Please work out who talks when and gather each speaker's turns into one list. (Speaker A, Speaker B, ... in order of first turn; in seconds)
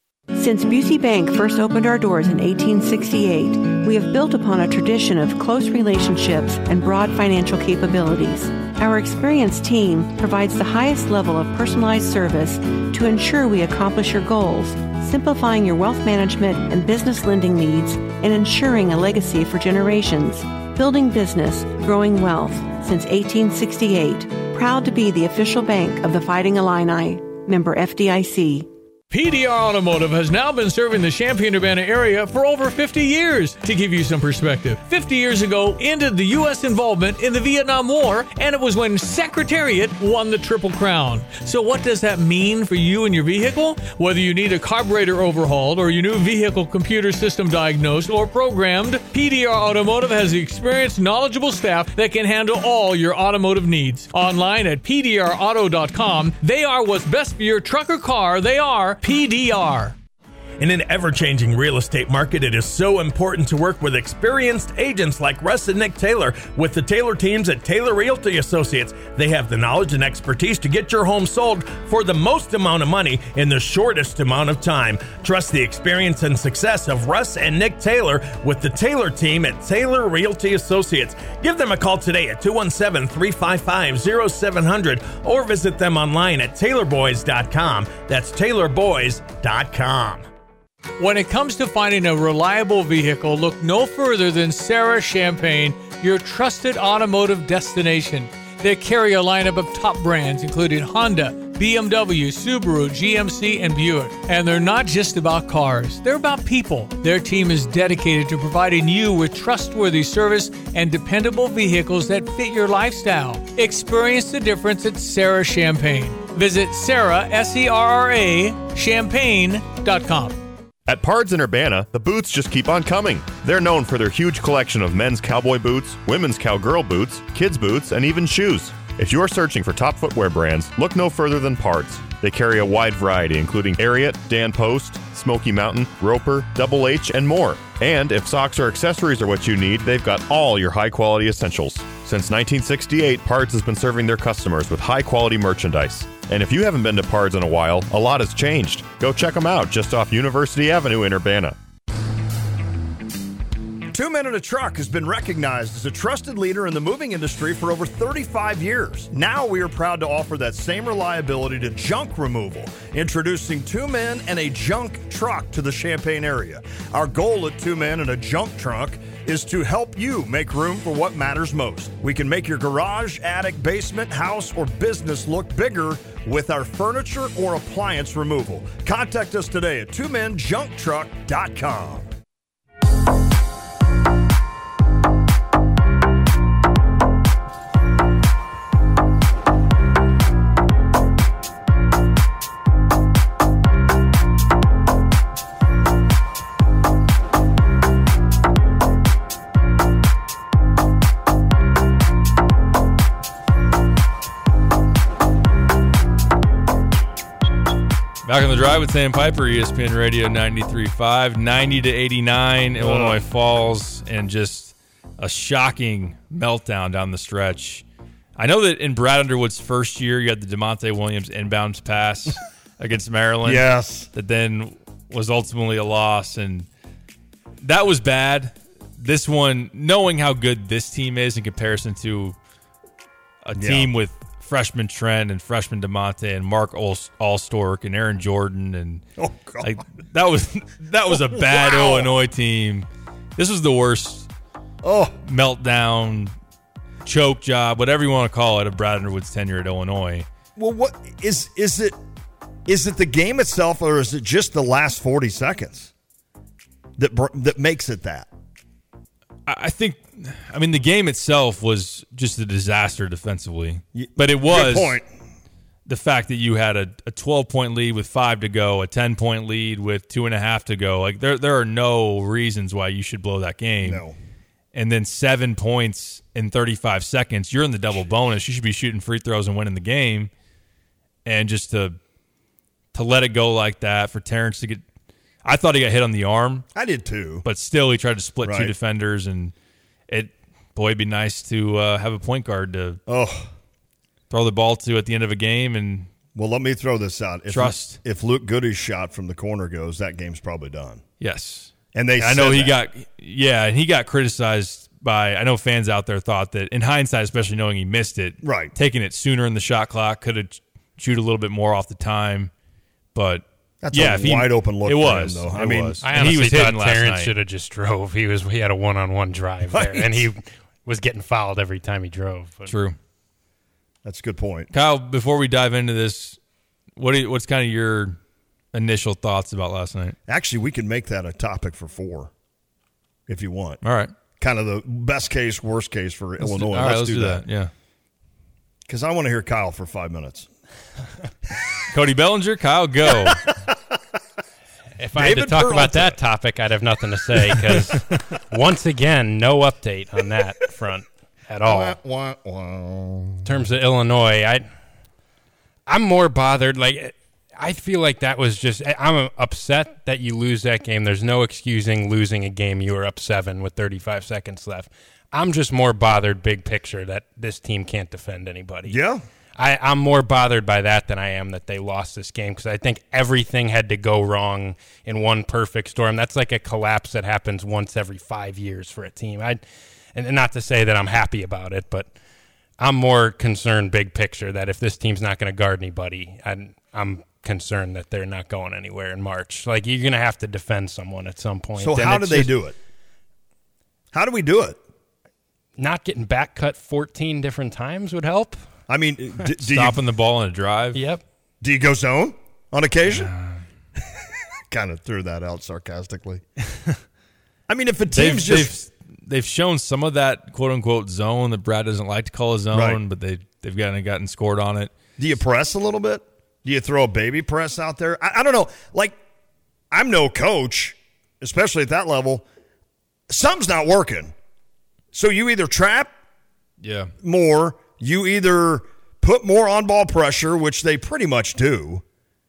Speaker A: 0.3-28.7
Speaker B: 29.1-60.0, 91.0-120.4
Speaker C: 60.6-90.2
Speaker D: 120.9-151.6
Speaker E: 153.9-182.1, 212.8-213.2, 223.4-224.1, 233.6-233.9, 239.2-239.8, 241.1-242.1, 244.8-245.2, 250.6-252.0, 252.7-255.9, 257.0-258.3, 263.9-265.1, 273.8-274.2, 286.7-287.4, 288.4-288.7, 293.1-293.5, 296.3-301.0, 301.9-302.8, 308.4-308.7, 313.8-316.3, 319.7-320.3, 324.0-324.7, 330.3-332.3, 333.3-333.8, 334.4-337.4, 338.9-340.5, 343.1-343.7, 345.1-346.2, 351.6-353.5, 368.9-369.2, 391.8-392.8, 394.1-394.8, 398.9-400.0, 401.6-403.3, 404.7-406.4, 407.7-408.7, 412.7-413.0, 415.2-419.2, 419.9-422.4, 423.3-424.3, 425.1-426.1, 427.2-432.0
Speaker F: 208.2-217.8, 218.4-226.7, 227.6-232.3, 233.4-239.0, 239.6-244.3, 245.2-246.3, 247.0-250.2, 259.5-265.0, 265.9-274.0, 274.7-280.3, 281.2-282.0, 282.9-284.8, 285.4-286.7, 287.4-289.5, 290.1-293.0, 294.3-296.1, 297.5-298.0, 301.2-312.5, 313.1-317.3, 322.7-322.9, 324.7-326.4, 327.0-328.2, 328.7-330.1, 333.8-334.1, 336.4-337.7, 341.9-343.5, 399.6-401.0, 408.1-414.9, 426.8-427.1
Speaker G: 316.0-322.7, 345.0-352.0, 353.4-354.6, 355.9-368.9, 369.6-379.6, 380.1-382.1, 382.8-392.5, 395.8-398.7, 400.9-401.2